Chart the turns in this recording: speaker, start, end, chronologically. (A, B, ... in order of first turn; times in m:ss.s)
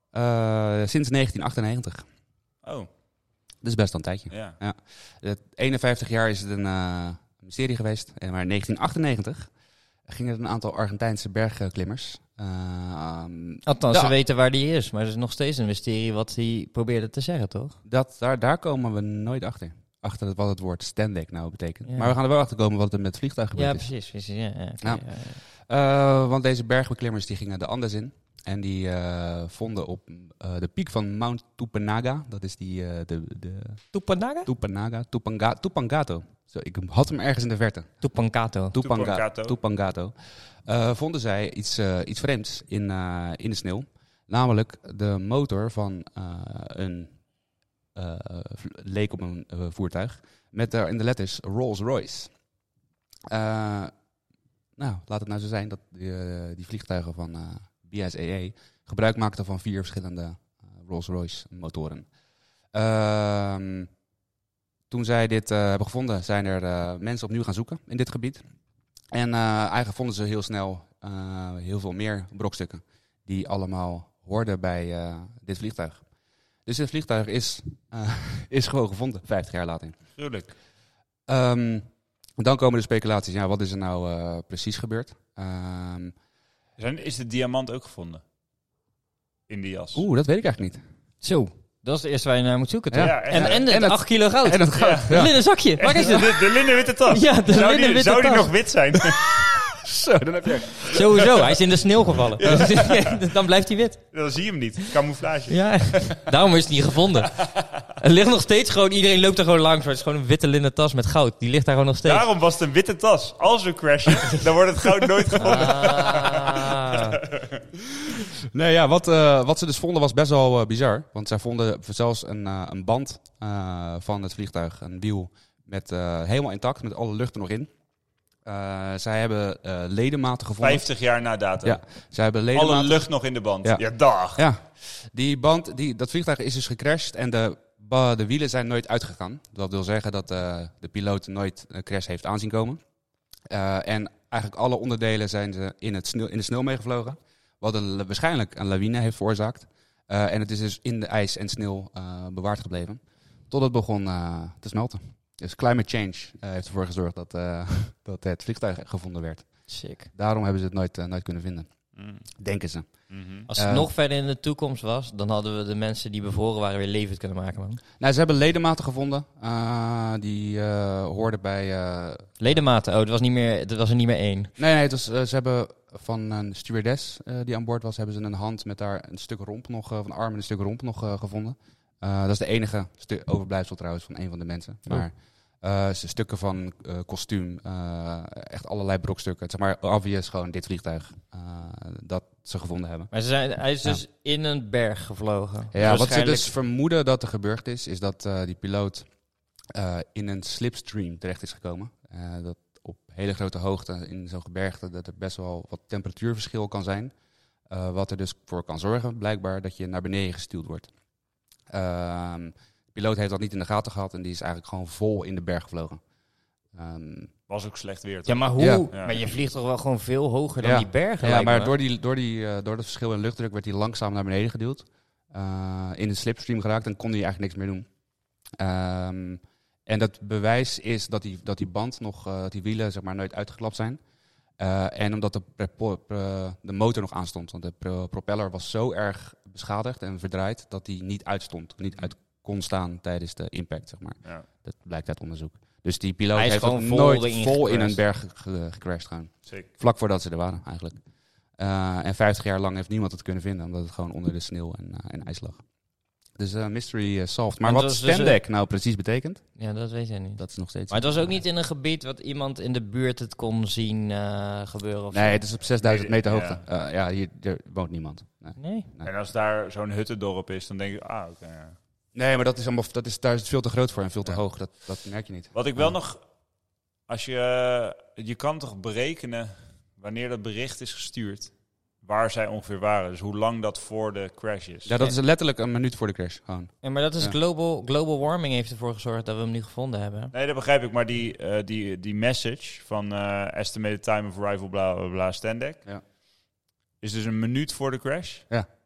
0:00.1-0:02.0 A
0:02.6-0:02.9 B
0:03.6-0:09.5 A
0:04.3-0:04.6 B
0:10.1-0:14.1 A
0:13.6-0:17.8 C
0:17.8-0:23.9 A
0:21.9-0:22.1 C
0:23.6-0:25.4 C
0:24.8-0:33.9 A
0:33.9-0:34.5 C
0:34.4-0:38.0 A
0:38.0-0:38.8 C
0:38.7-0:47.1 A
0:38.8-0:39.6 B
0:48.0-0:52.3 A
0:53.3-0:53.9 A
0:54.8-1:02.1 A
1:02.7-1:03.9 A
1:04.9-1:08.4 A
1:09.1-1:16.0 A
1:16.7-1:20.0 A
1:20.2-1:20.5 B
1:21.3-1:21.9 A
1:22.4-1:26.1 A
1:26.8-1:28.2 B
1:29.5-1:30.0 B
1:30.0-1:30.8 A
1:31.2-1:36.3 C
1:32.9-1:35.4 A
1:33.0-1:33.6 B
1:34.7-1:35.3 B
1:35.8-1:39.5 B
1:36.0-1:36.4 A
1:37.1-1:38.5 C
1:39.1-1:41.4 A
1:40.9-1:44.0 C
1:42.4-1:43.2 B
1:44.1-1:46.3 B
1:45.5-1:47.4 C
1:47.4-1:47.6 B
1:48.0-1:52.3 C
1:52.0-1:57.6 B
1:55.4-1:57.2 C
1:57.8-2:07.7 A
2:08.4-2:10.8 A
2:10.6-2:11.8 B
2:11.6-2:13.0 A
2:12.5-2:14.4 B
2:13.6-2:22.8 A
2:23.5-2:41.7 A
2:39.7-2:40.1 C
2:42.0-2:42.2 B
2:42.3-2:43.9 A
2:43.1-2:43.5 B
2:43.5-2:47.8 C
2:48.0-2:52.6 A
2:52.4-2:54.5 C
2:54.6-3:13.1 A
3:13.1-3:16.5 C
3:15.7-3:19.1 A
3:19.7-3:27.1 A
3:27.7-3:30.9 A
3:31.7-3:36.0 A
3:36.7-3:37.3 A
3:37.5-3:38.4 B
3:38.3-3:41.7 C
3:38.6-3:38.9 A
3:40.6-3:47.9 A
3:48.5-3:54.0 A
3:54.6-4:11.0 A
4:06.4-4:08.0 C
4:11.6-4:15.6 A
4:16.4-4:19.4 A
4:17.6-4:18.4 C
4:19.6-4:25.4 C
4:20.4-4:21.4 A
4:25.1-4:29.1 A
4:25.8-4:26.6 B
4:28.6-4:28.9 C
4:29.0-4:31.8 B
4:32.1-4:36.0 A
4:35.5-4:36.5 B
4:37.1-4:45.0 B
4:44.9-4:47.4 A
4:46.8-4:50.3 C
4:50.3-4:55.8 B
4:57.0-4:58.5 B